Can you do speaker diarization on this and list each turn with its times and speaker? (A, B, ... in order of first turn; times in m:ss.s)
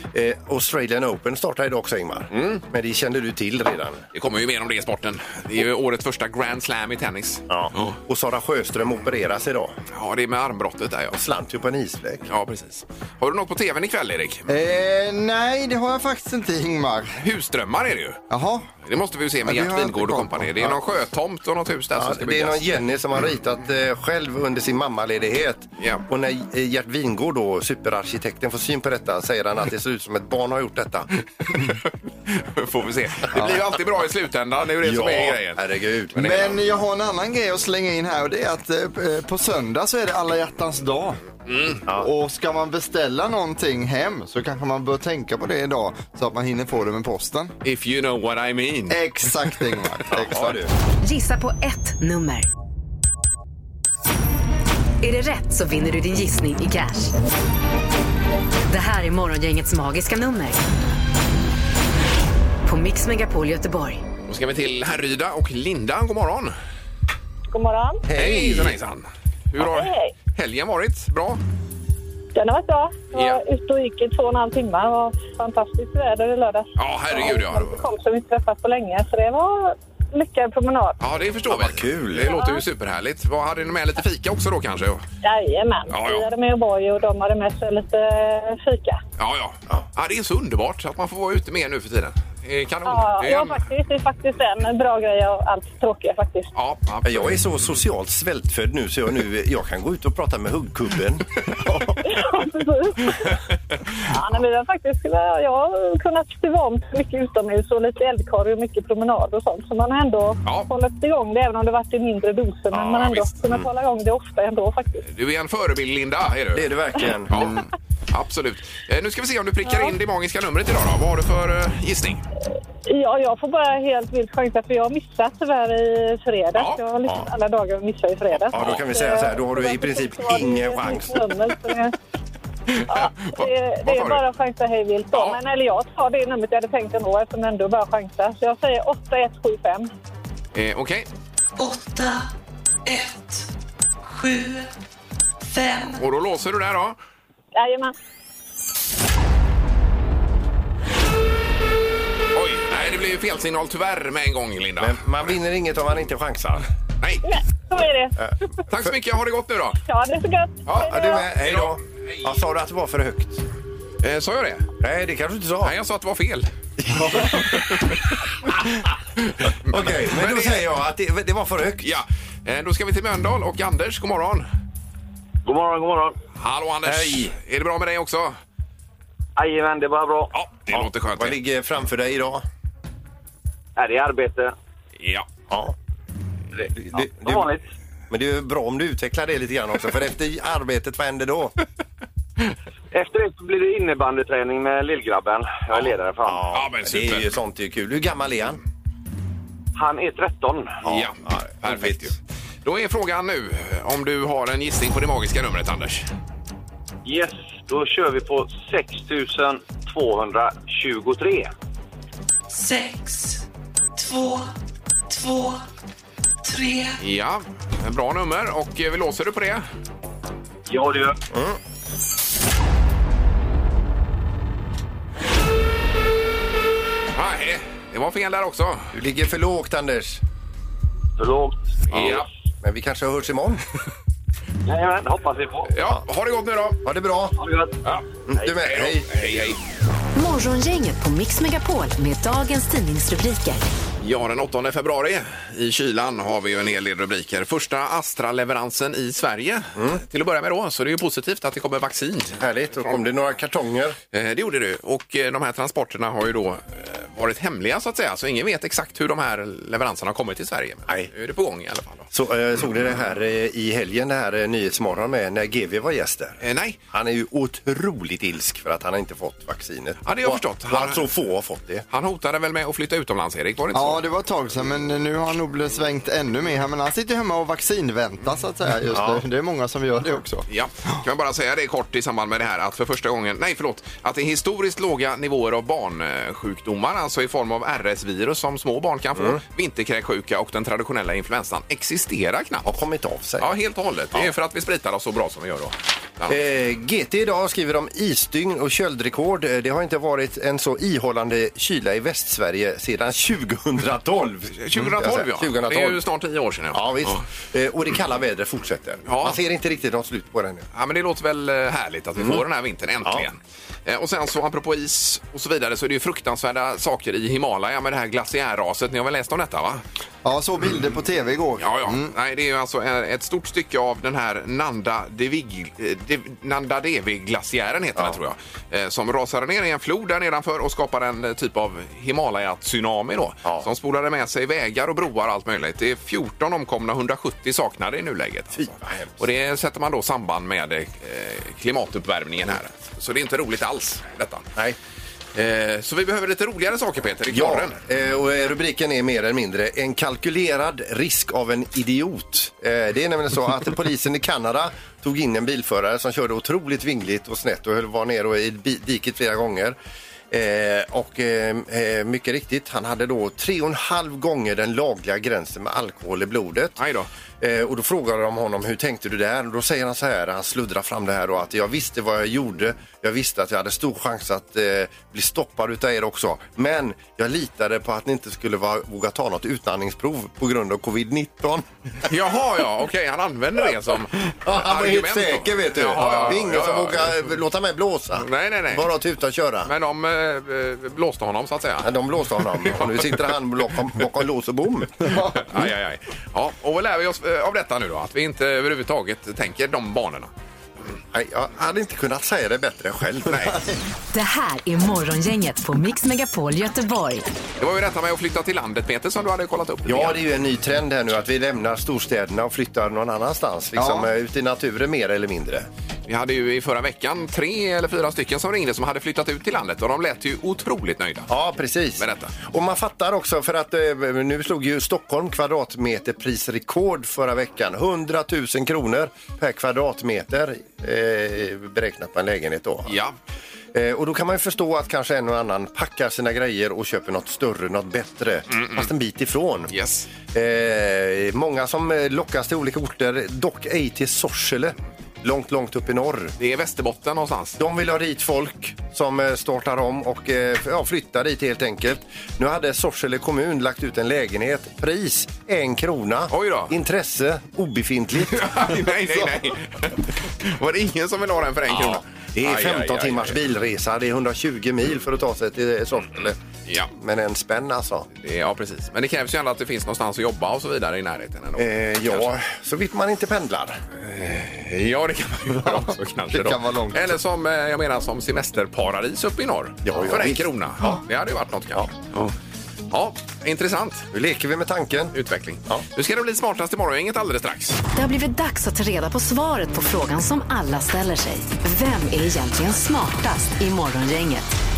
0:00.1-0:04.1 A
0:02.3-0:02.6 B
0:04.1-0:08.0 B
0:07.5-0:09.7 A
0:09.9-0:11.2 B
0:11.1-0:12.3 A
0:12.3-0:14.5 B
0:14.5-0:17.2 C
0:17.2-0:18.2 B
0:18.3-0:18.7 C
0:18.8-0:22.6 B
0:19.4-0:20.7 C
0:22.0-0:31.1 A
0:25.8-0:26.0 B
0:31.5-0:36.6 B
0:33.3-0:33.6 A
0:34.8-0:36.2 A
0:36.2-0:41.2 C
0:41.5-0:41.8 B
0:42.0-0:47.5 C
0:47.6-0:49.0 B
0:48.9-0:50.6 C
0:50.1-0:50.7 A
0:51.0-0:52.5 D
0:55.0-0:57.1 D
0:58.7-1:00.6 D
1:02.6-1:04.0 D
1:04.3-1:06.6 B
1:07.5-1:08.0 E
1:08.1-1:08.8 A
1:08.2-1:11.4 B
1:09.6-1:10.1 E
1:12.4-1:21.0 E
1:13.1-1:13.4 B
1:16.8-1:17.8 B
1:21.0-1:25.0 B
1:21.5-1:22.3 A
1:22.3-1:22.6 E
1:25.2-1:29.0 E
1:25.9-1:26.3 B
1:29.2-1:33.6 B
1:32.9-1:36.5 E
1:36.6-1:37.4 B
1:37.0-1:41.3 A
1:42.0-1:43.4 E
1:44.0-1:55.0 E
1:52.8-1:53.4 B
1:55.0-1:57.6 B
1:56.5-1:57.5 A
1:58.1-2:02.2 B
2:02.9-2:12.0 E
2:06.6-2:06.8 B
2:08.5-2:11.4 A
2:08.5-2:08.9 B
2:12.8-2:14.2 B
2:12.8-2:19.9 E
2:15.1-2:15.4 B
2:20.5-2:21.1 B
2:21.6-2:22.3 F
2:22.9-2:23.5 F
2:24.0-2:24.7 F
2:25.5-2:26.0 F
2:26.0-2:27.0 B
2:27.6-2:27.9 E
2:32.3-2:35.3 B
2:34.8-2:36.7 A
2:37.3-2:38.2 E
2:38.2-2:38.9 A
2:38.7-2:39.8 B
2:39.9-2:41.3 E
2:40.7-2:41.8 B
2:40.8-2:43.4 A
2:44.0-2:44.7 B
2:44.8-2:45.7 A
2:45.6-2:46.5 B
2:46.8-2:47.6 A
2:49.4-2:50.6 B
2:49.6-2:52.0 A
2:51.8-2:54.5 B
2:55.4-2:56.2 G
2:56.4-2:58.4 B
2:56.8-2:57.3 A
2:59.4-3:00.3 G
3:00.4-3:01.4 B
3:00.7-3:02.4 A
3:03.8-3:04.5 G
3:05.0-3:05.3 B
3:05.5-3:05.8 A
3:06.6-3:07.6 G
3:06.9-3:07.5 A
3:08.1-3:11.6 A
3:12.9-3:16.4 G
3:16.2-3:18.6 A
3:16.5-3:17.3 B
3:19.8-3:20.8 G
3:20.8-3:22.1 A
3:20.8-3:26.1 B
3:27.0-3:31.5 G
3:32.5-3:33.4 F
3:34.0-3:34.5 F
3:35.1-3:35.6 F
3:36.4-3:37.0 F
3:37.0-3:39.6 B
3:40.7-3:41.2 G
3:41.3-3:41.6 A
3:47.2-3:48.9 B
3:48.9-3:50.2 A
3:51.2-3:52.2 G
3:51.9-3:52.3 B
3:52.0-3:53.6 A
3:54.7-3:55.7 G
3:55.7-3:56.8 B
3:56.8-3:57.4 A
3:57.4-3:57.7 G
3:57.8-3:59.6 B
3:58.3-3:59.2 A
4:00.2-4:03.6 D
4:04.0-4:13.0 B
4:09.8-4:10.0 A
4:12.4-4:14.0 A
4:14.1-4:22.1 B
4:22.1-4:26.4 A
4:26.4-4:26.8 B
4:26.9-4:31.8 A
4:30.1-4:31.1 B
4:31.9-4:34.0 B
4:33.7-4:40.4 C
4:38.9-4:39.2 A
4:40.5-4:52.7 B
4:52.6-4:53.5 A
4:53.4-4:56.4 B
4:56.3-5:06.0 A
5:04.6-5:07.2 B
5:06.7-5:10.7 A
5:09.1-5:09.4 B
5:10.7-5:19.8 B
5:20.2-5:22.1 C
5:21.6-5:44.5 B
5:38.6-5:39.2 A
5:45.4-5:47.8 B
5:47.3-5:59.8 A
6:00.3-6:06.8 A
6:06.8-6:07.1 B
6:07.4-6:21.6 A
6:22.0-6:27.2 B
6:24.4-6:29.7 A
6:28.2-6:28.9 B
6:29.6-6:31.9 B
6:31.8-6:35.1 A
6:32.6-6:33.2 B
6:35.3-6:40.3 B
6:41.1-6:43.6 A
6:43.3-6:43.6 B
6:44.1-6:47.2 D
6:47.6-6:50.2 B
6:49.9-6:55.7 A
6:53.8-6:54.1 C
6:56.1-7:01.3 B
7:01.3-7:13.0 A
7:02.0-7:02.3 B
7:12.9-7:13.2 B
7:13.7-7:19.7 A
7:18.5-7:18.9 B
7:19.7-7:20.1 B
7:20.3-7:26.3 A
7:26.4-7:27.6 B
7:27.6-7:38.6 A
7:36.3-7:36.7 B
7:38.3-7:43.4 B
7:41.7-7:46.4 A
7:46.9-7:48.1 A
7:48.2-7:52.3 B
7:51.6-7:53.8 A
7:54.0-8:02.3 B
7:56.3-7:57.1 C
7:59.8-8:01.0 A
8:02.9-8:04.1 B
8:04.1-8:05.2 A
8:05.1-8:07.8 B
8:07.9-8:14.5 D